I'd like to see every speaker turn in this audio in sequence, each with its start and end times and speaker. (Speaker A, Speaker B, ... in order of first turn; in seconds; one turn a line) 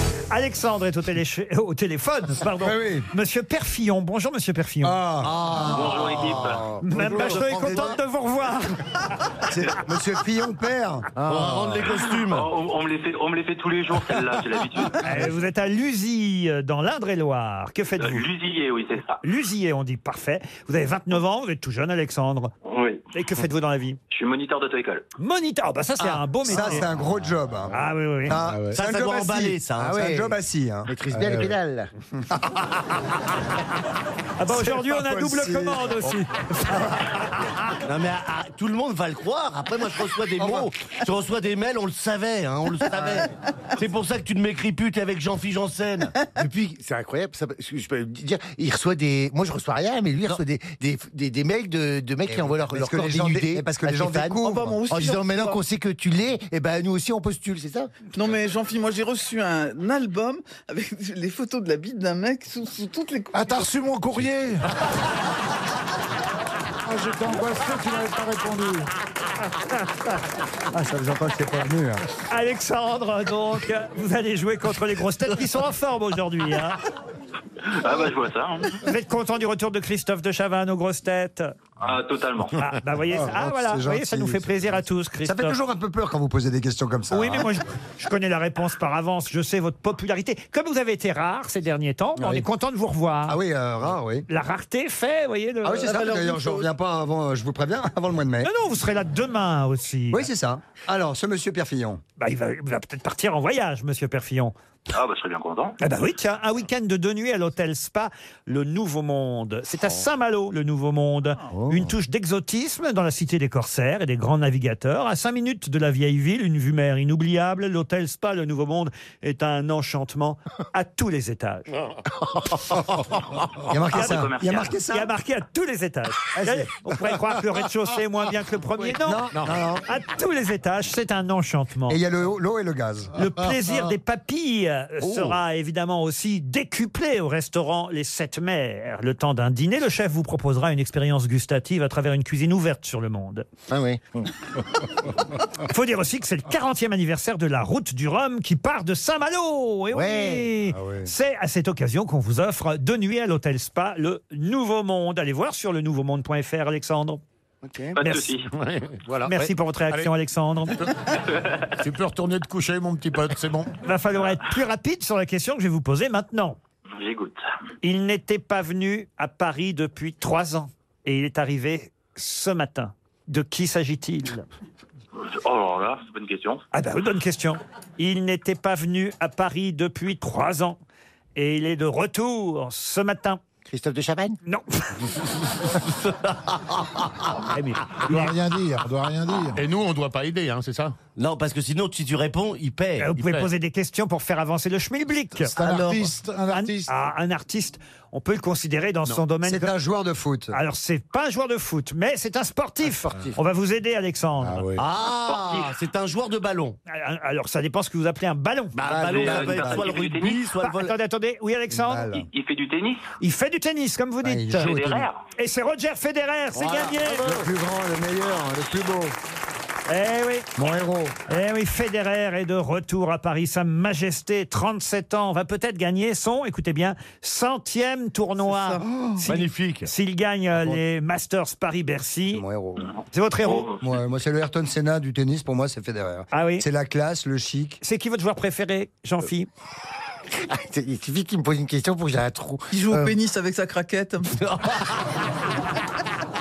Speaker A: 0.3-5.0
Speaker B: 2.6-3.1
Speaker B: 4.8-8.0
Speaker C: 5.2-5.9
Speaker D: 5.6-6.8
Speaker A: 6.8-8.9
Speaker E: 7.1-7.3
Speaker C: 7.2-7.9
Speaker B: 9.5-11.1
Speaker F: 11.2-11.8
Speaker C: 11.2-12.5
Speaker D: 12.3-15.3
Speaker A: 15.0-18.3
Speaker D: 18.0-19.2
Speaker A: 19.2-22.5
Speaker D: 22.6-23.0
Speaker A: 23.1-24.0
Speaker D: 24.1-25.1
Speaker A: 25.2-26.9
Speaker B: 26.0-30.9
Speaker A: 27.7-28.4
Speaker E: 28.4-28.8
Speaker C: 28.7-30.0
Speaker F: 29.8-31.9
Speaker E: 31.1-31.5
Speaker A: 34.4-37.0
Speaker B: 34.5-36.2
Speaker C: 37.9-46.1
Speaker B: 40.4-40.7
Speaker B: 42.9-43.2
Speaker F: 46.4-57.9
Speaker B: 52.3-54.9
Speaker G: 54.4-55.6
Speaker G: 58.1-63.7
Speaker E: 63.3-64.8
Speaker E: 66.8-68.9
Speaker B: 70.7-72.1
Speaker A: 72.3-76.8
Speaker D: 77.6-78.8
Speaker A: 78.8-81.5
Speaker D: 81.8-82.7
Speaker A: 82.6-85.6
Speaker B: 83.1-87.5
Speaker A: 87.1-93.4
Speaker B: 93.3-94.3
Speaker A: 94.3-96.0
Speaker B: 95.6-98.5
Speaker G: 95.9-96.7
Speaker A: 98.4-100.3
Speaker B: 100.1-102.0
Speaker A: 102.2-104.5
Speaker D: 104.9-105.8
Speaker A: 105.8-121.7
Speaker F: 111.5-111.8
Speaker B: 123.7-125.1
Speaker D: 123.9-124.8
Speaker A: 123.9-124.2
Speaker A: 124.9-129.3
Speaker B: 126.4-126.7
Speaker B: 128.9-129.9
Speaker A: 129.8-132.0
Speaker B: 131.9-133.2
Speaker A: 133.2-143.5
Speaker F: 143.7-144.0
Speaker A: 145.7-157.2
Speaker F: 149.9-150.5
Speaker B: 150.7-151.1
Speaker B: 157.7-158.0
Speaker D: 158.0-158.5
Speaker A: 158.0-158.3
Speaker H: 158.5-159.3
Speaker A: 159.3-160.8
Speaker H: 161.7-163.7
Speaker A: 163.8-166.6
Speaker D: 166.9-167.4
Speaker A: 167.8-174.5
Speaker D: 175.2-176.6
Speaker A: 176.7-180.8
Speaker A: 181.4-183.4
Speaker F: 183.7-184.4
Speaker A: 184.5-185.1
Speaker C: 185.8-187.1
Speaker A: 187.5-188.3
Speaker E: 188.0-189.6
Speaker H: 189.6-191.0
Speaker C: 191.2-193.2
Speaker A: 193.0-195.6
Speaker H: 193.2-193.5
Speaker E: 195.4-196.9
Speaker A: 196.5-199.7
Speaker B: 199.4-200.6
Speaker A: 200.5-204.7
Speaker E: 204.4-204.8
Speaker C: 204.8-206.8
Speaker D: 205.1-205.8
Speaker A: 206.9-208.8
Speaker C: 208.8-210.9
Speaker B: 208.8-209.9
Speaker D: 208.9-210.5
Speaker A: 210.6-212.2
Speaker B: 211.7-212.3
Speaker D: 212.3-213.1
Speaker A: 213.2-214.8
Speaker B: 214.2-215.1
Speaker D: 214.6-215.2
Speaker A: 215.4-217.4
Speaker C: 216.6-217.4
Speaker B: 217.1-219.2
Speaker A: 219.9-220.5
Speaker B: 220.6-221.2
Speaker A: 221.3-232.4
Speaker G: 228.4-229.2
Speaker C: 229.2-229.9
Speaker B: 232.3-233.0
Speaker A: 233.1-233.7
Speaker D: 233.4-233.8
Speaker B: 233.8-237.8
Speaker A: 236.3-236.7
Speaker A: 237.8-239.5
Speaker F: 240.4-243.2
Speaker G: 242.7-244.4
Speaker C: 244.3-245.2